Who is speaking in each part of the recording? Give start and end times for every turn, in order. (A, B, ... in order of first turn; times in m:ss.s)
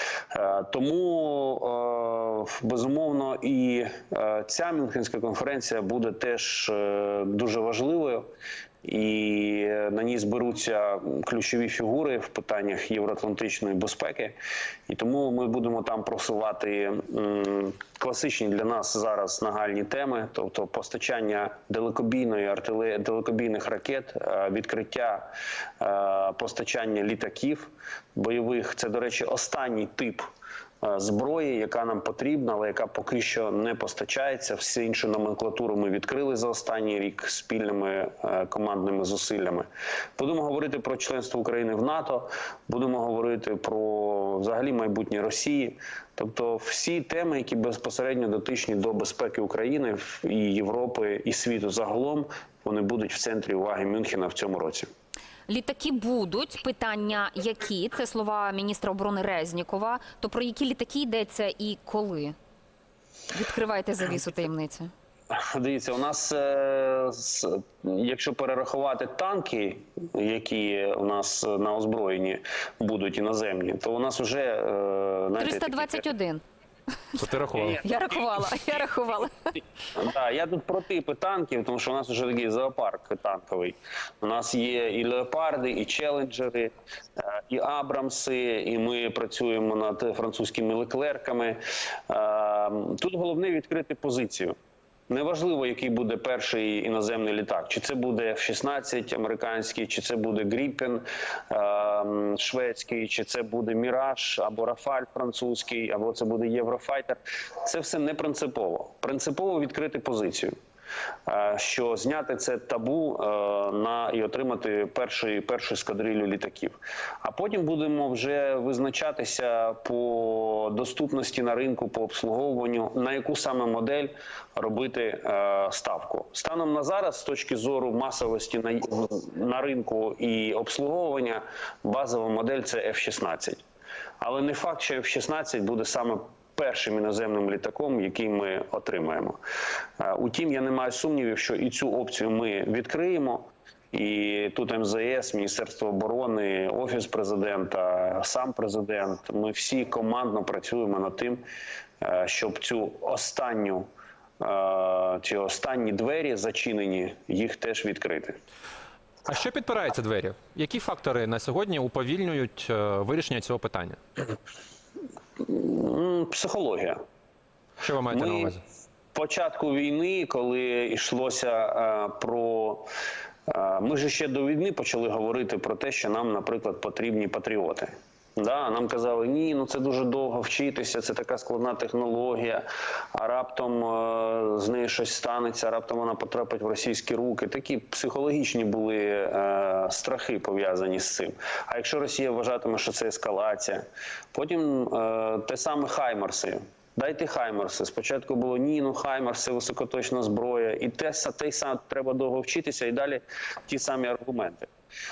0:00.3-0:08.3 A
0:08.8-0:14.4 A
0:14.9-0:30.2 A
0:30.8-0:54.9 A
0:55.5-1:02.4 B
1:03.3-1:04.9 B
1:05.3-1:16.1 A
1:15.4-1:16.4 B
1:17.2-1:17.8 C
1:17.8-1:19.3 B
1:19.9-1:34.5 A
1:35.1-1:50.5 A
1:51.2-2:13.6 A
2:14.2-2:19.4 A
2:20.0-2:31.4 A
2:32.0-2:33.9 A
2:34.4-2:38.4 A
2:39.2-2:44.0 C
2:45.4-2:47.0 A
2:47.8-2:48.6 C
2:48.1-2:48.6 A
2:49.1-2:52.9 A
2:53.5-3:24.7 A